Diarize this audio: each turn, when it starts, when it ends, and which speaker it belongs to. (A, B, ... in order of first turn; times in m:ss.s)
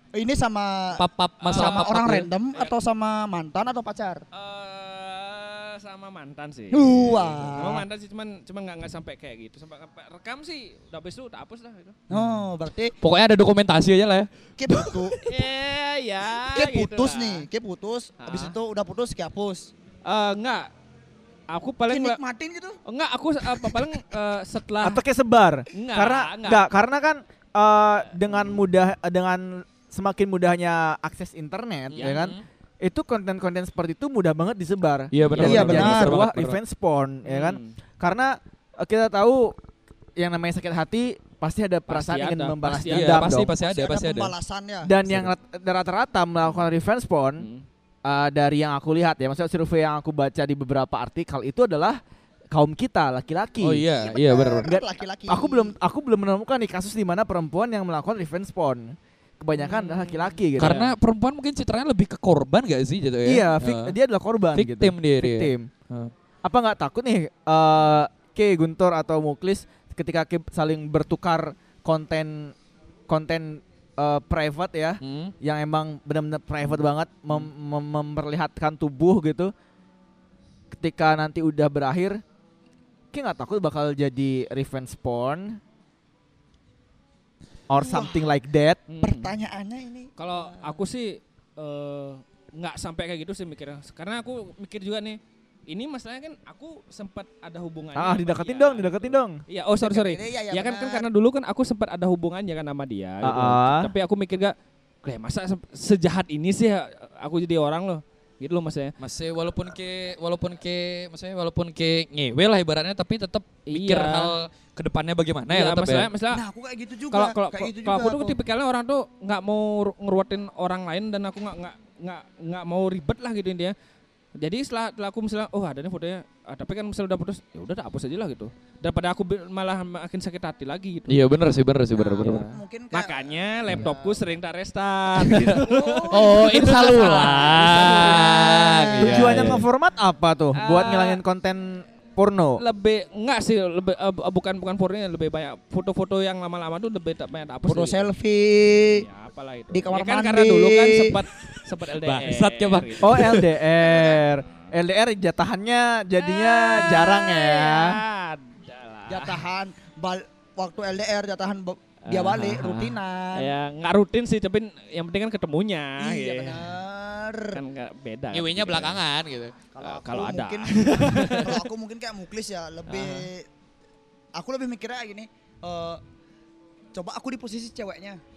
0:00.1-0:04.2 A
0:00.9-0:02.3 B
0:01.4-0:01.9 C
0:04.3-0:12.0 C
0:06.7-0:07.8 A
0:12.1-0:12.9 A
0:13.0-0:15.2 B
0:14.6-0:15.2 A
0:15.2-0:17.4 C
0:16.4-0:19.7 A
0:18.2-0:18.5 C
0:20.0-0:20.7 C
0:21.5-0:22.2 C
0:21.9-0:22.8 A
0:22.8-0:25.0 C
0:23.6-0:23.9 A
0:24.8-0:39.5 D
0:25.7-0:26.6 C
0:31.9-0:32.4 B
0:32.0-0:32.4 C
0:35.1-0:36.6 B
0:35.4-0:36.2 A
0:37.2-0:37.8 C
0:40.2-0:43.5 D
0:41.9-0:43.3 C
0:42.9-0:44.3 B
0:43.5-0:44.9 A
0:44.8-0:47.5 D
0:47.4-0:47.6 C
0:48.0-0:52.0 D
0:52.5-0:53.8 D
0:53.6-0:54.7 B
0:54.0-0:55.7 A
0:54.6-1:00.9 D
0:59.6-1:00.4 C
1:00.6-1:04.0 B
1:03.2-1:05.7 D
1:04.5-1:06.1 B
1:06.4-1:12.5 D
1:13.1-1:19.5 D
1:15.0-1:15.3 B
1:20.7-1:22.2 D
1:23.1-1:25.6 D
1:27.7-1:28.8 D
1:27.7-1:28.2 A
1:28.9-1:29.3 C
1:29.0-1:30.7 A
1:30.2-1:48.9 C
1:38.0-1:39.4 D
1:39.8-1:41.1 A
1:43.2-1:43.9 D
1:49.0-1:56.1 B
1:53.7-1:54.3 C
1:55.5-1:56.4 C
1:56.3-1:58.4 A
1:57.1-2:03.7 C
2:04.4-2:11.2 C
2:11.1-2:12.4 B
2:11.9-2:14.0 A
2:12.2-2:19.4 C
2:15.2-2:15.5 B
2:15.6-2:16.3 A
2:16.1-2:19.6 B
2:19.0-2:22.6 D
2:20.5-2:21.2 C
2:22.6-2:28.1 C
2:27.6-2:29.0 A
2:28.9-2:34.7 C
2:29.7-2:31.2 A
2:32.0-2:33.4 B
2:33.0-2:38.0 D
2:36.2-2:39.4 C
2:39.1-2:43.5 A
2:42.0-2:46.6 C
2:46.0-2:47.6 A
2:47.5-2:49.0 C
2:48.3-2:49.6 B
2:49.7-2:53.5 A
2:49.8-2:51.6 C
2:52.9-2:53.3 C
2:54.3-2:56.0 A
2:56.9-2:58.2 A